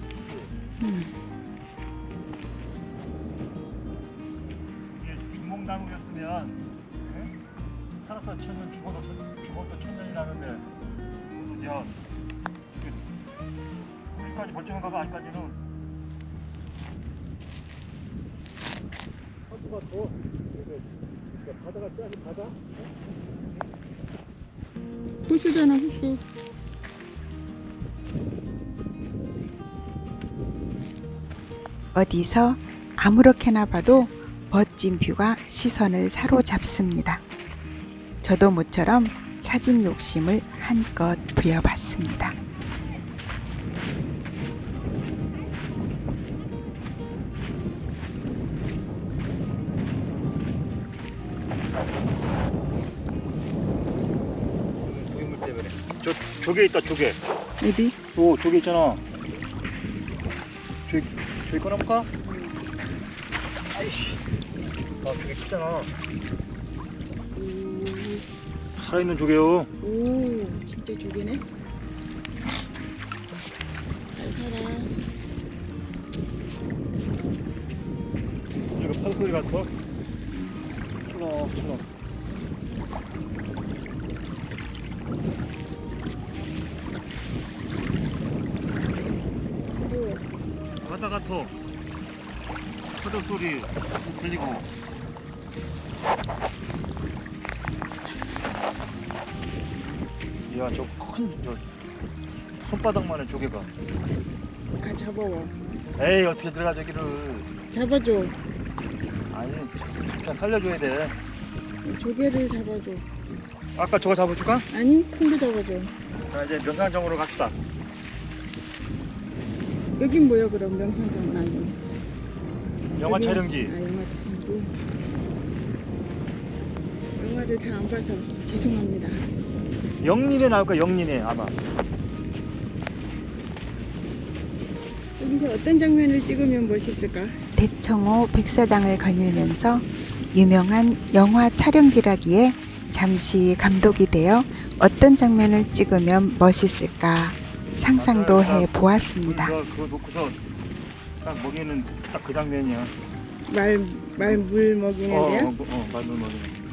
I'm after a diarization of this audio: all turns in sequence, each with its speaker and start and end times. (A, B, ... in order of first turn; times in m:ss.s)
0:00.2-0:00.5 A
0:00.8-0:01.1 B
0:04.9-0:07.3 A
0:08.0-0:10.7 A
0:11.3-0:12.0 A
0:12.7-0:13.1 A
0:14.1-0:15.6 A
0:19.5-0:20.9 A
0:21.4-0:22.8 A
0:25.3-0:26.2 B
0:31.9-0:37.2 C
0:38.2-0:42.4 C
0:54.8-0:57.2 A
0:57.6-0:58.0 B
0:58.1-0:59.0 A
1:00.9-1:02.1 A
1:02.2-1:02.6 B
1:03.7-1:04.2 A
1:05.0-1:05.9 A
1:07.4-1:08.2 B
1:08.8-1:09.7 A
1:09.8-1:11.4 B
1:14.1-1:14.9 B
1:18.7-1:19.7 A
1:20.3-1:20.8 B
1:21.0-1:21.9 A
1:29.8-1:30.2 B
1:30.8-1:31.5 A
1:32.9-1:34.7 A
1:40.5-1:41.6 A
1:42.5-1:43.7 A
1:44.8-1:45.6 B
1:46.0-1:47.5 A
1:47.7-1:48.4 B
1:49.3-1:51.2 A
1:51.8-1:53.0 B
1:53.8-1:54.7 A
1:54.7-1:55.9 B
1:56.3-1:57.6 A
2:00.0-2:01.8 B
2:03.0-2:03.8 A
2:03.1-2:04.7 B
2:07.2-2:09.2 B
2:10.0-2:11.6 A
2:15.2-2:17.4 B
2:17.6-2:29.6 C
2:27.9-2:30.4 A
2:31.2-2:32.9 A
2:33.4-2:35.5 B
2:34.1-2:34.4 A
2:35.1-2:36.6 A